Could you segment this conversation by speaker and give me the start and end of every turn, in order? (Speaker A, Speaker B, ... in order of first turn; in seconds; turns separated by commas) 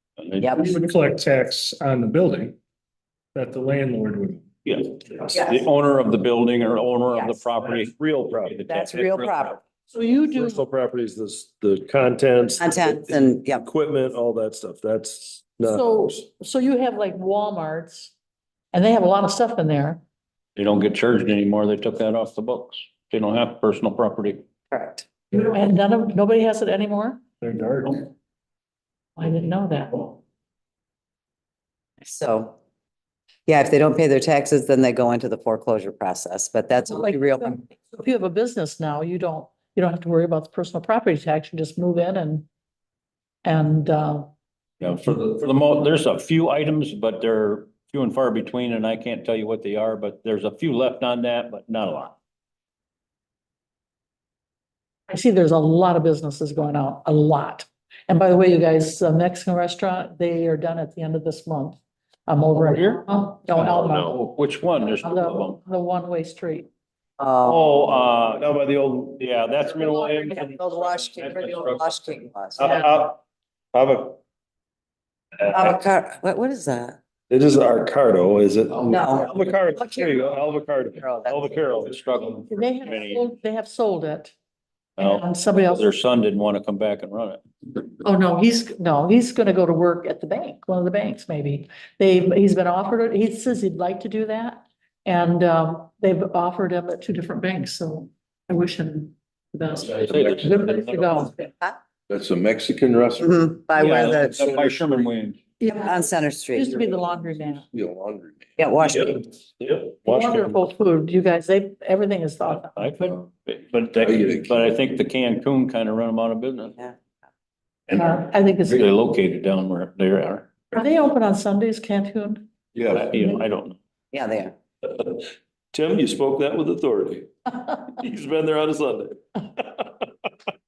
Speaker A: 0.4-0.7, Speaker B: 0.5-2.5, Speaker B: 3.3-4.4, Speaker C: 4.6-9.6, Speaker A: 7.1-7.4, Speaker D: 7.8-8.6, Speaker A: 8.7-9.6, Speaker E: 9.9-10.6, Speaker D: 10.3-16.1, Speaker A: 12.6-13.7, Speaker E: 15.6-18.1, Speaker E: 18.7-20.0, Speaker C: 20.6-24.4, Speaker A: 24.7-25.1, Speaker E: 25.5-27.2, Speaker B: 27.4-28.0, Speaker E: 29.2-30.2, Speaker A: 32.0-32.5, Speaker A: 33.5-37.6, Speaker E: 36.9-42.5, Speaker E: 43.4-44.3, Speaker C: 44.8-52.1, Speaker E: 55.1-64.2, Speaker C: 62.6-63.0, Speaker D: 63.7-64.1, Speaker C: 64.0-65.6, Speaker E: 65.0-66.7, Speaker A: 67.2-67.6, Speaker D: 67.5-69.4, Speaker C: 67.5-68.4, Speaker C: 69.2-72.1, Speaker A: 70.1-72.6, Speaker D: 72.6-73.2, Speaker D: 73.7-74.2, Speaker A: 75.5-77.0, Speaker D: 77.3-82.0, Speaker A: 78.9-80.3, Speaker A: 80.9-81.5, Speaker C: 81.7-83.2, Speaker E: 82.5-84.3, Speaker C: 85.0-87.4, Speaker E: 85.0-85.9, Speaker E: 88.0-101.5, Speaker C: 100.0-101.2, Speaker F: 102.1-103.3, Speaker A: 103.2-104.4, Speaker C: 103.7-105.4, Speaker F: 104.3-104.8, Speaker E: 105.6-107.7, Speaker A: 105.7-106.8, Speaker F: 107.7-108.6, Speaker A: 108.6-109.2, Speaker D: 109.0-110.5, Speaker E: 110.0-113.0, Speaker C: 112.6-116.8, Speaker F: 113.9-114.6, Speaker C: 117.9-120.6, Speaker E: 117.9-118.9, Speaker E: 120.7-122.4, Speaker F: 122.7-123.0, Speaker C: 122.9-123.8, Speaker A: 124.1-124.5, Speaker D: 124.8-127.3, Speaker D: 127.9-130.0